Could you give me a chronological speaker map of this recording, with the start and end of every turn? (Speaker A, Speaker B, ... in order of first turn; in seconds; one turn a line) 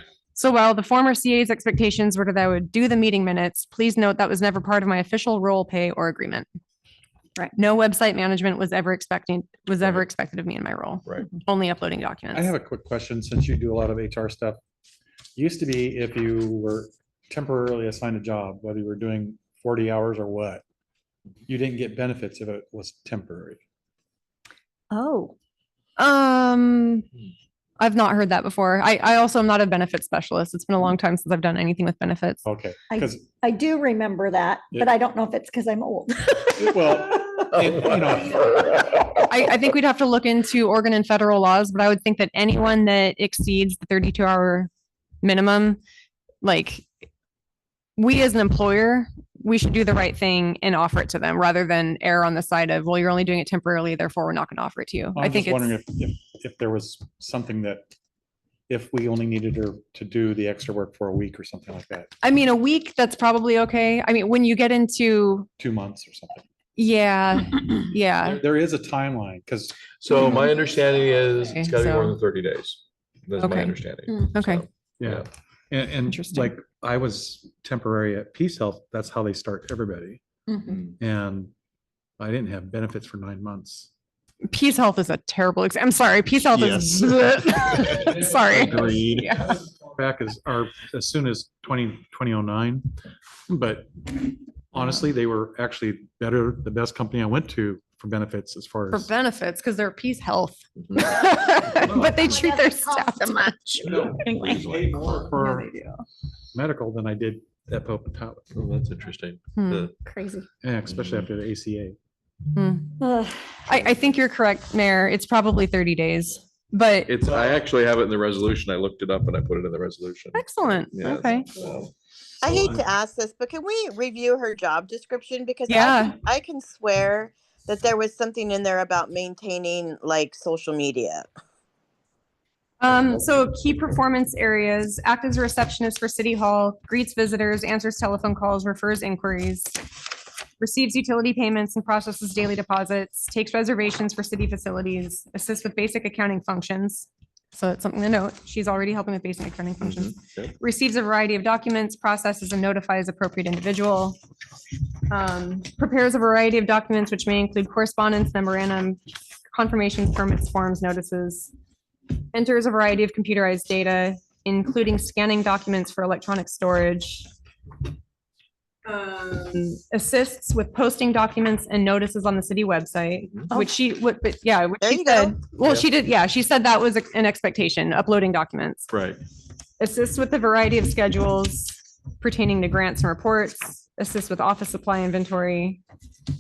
Speaker A: 0.3-6.5
Speaker A: 7.6-12.5
Speaker B: 12.3-14.6
Speaker B: 15.4-20.6
Speaker B: 21.5-23.6
Speaker C: 24.9-25.4
Speaker A: 26.0-27.1
Speaker A: 27.8-32.4
Speaker B: 32.5-33.2
Speaker C: 32.9-37.4
Speaker B: 36.6-38.5
Speaker A: 39.2-44.7
Speaker A: 45.2-45.8
Speaker A: 46.4-46.9
Speaker A: 48.0-55.8
Speaker B: 55.2-57.9
Speaker B: 58.7-62.1
Speaker A: 62.2-65.5
Speaker B: 65.6-66.4
Speaker A: 66.8-68.4
Speaker B: 68.4-69.8
Speaker D: 70.0-75.3
Speaker A: 71.4-72.2
Speaker A: 73.4-74.6
Speaker B: 75.0-80.2
Speaker A: 76.1-76.5
Speaker D: 80.7-80.9
Speaker B: 81.0-81.5
Speaker B: 82.2-83.9
Speaker A: 84.5-89.6
Speaker B: 88.0-92.9
Speaker B: 93.5-99.1
Speaker A: 98.9-103.8
Speaker D: 100.8-101.0
Speaker B: 101.8-102.3
Speaker C: 102.3-104.6
Speaker D: 103.8-105.2
Speaker B: 103.8-105.7
Speaker A: 105.3-106.0
Speaker B: 106.5-108.5
Speaker D: 108.5-110.0
Speaker A: 109.6-109.9
Speaker C: 110.0-110.5
Speaker B: 110.6-112.0
Speaker A: 112.5-113.0
Speaker C: 113.0-113.6
Speaker A: 113.7-117.1
Speaker D: 117.1-121.9
Speaker A: 120.3-121.5
Speaker E: 122.4-131.3
Speaker A: 125.7-126.2
Speaker A: 132.8-139.8
Speaker A: 140.6-154.2
Speaker D: 149.8-150.5
Speaker A: 155.1-159.0
Speaker A: 159.5-161.5
Speaker A: 162.3-167.3
Speaker A: 168.9-178.9
Speaker E: 174.8-175.4
Speaker D: 178.9-179.2
Speaker A: 179.8-185.8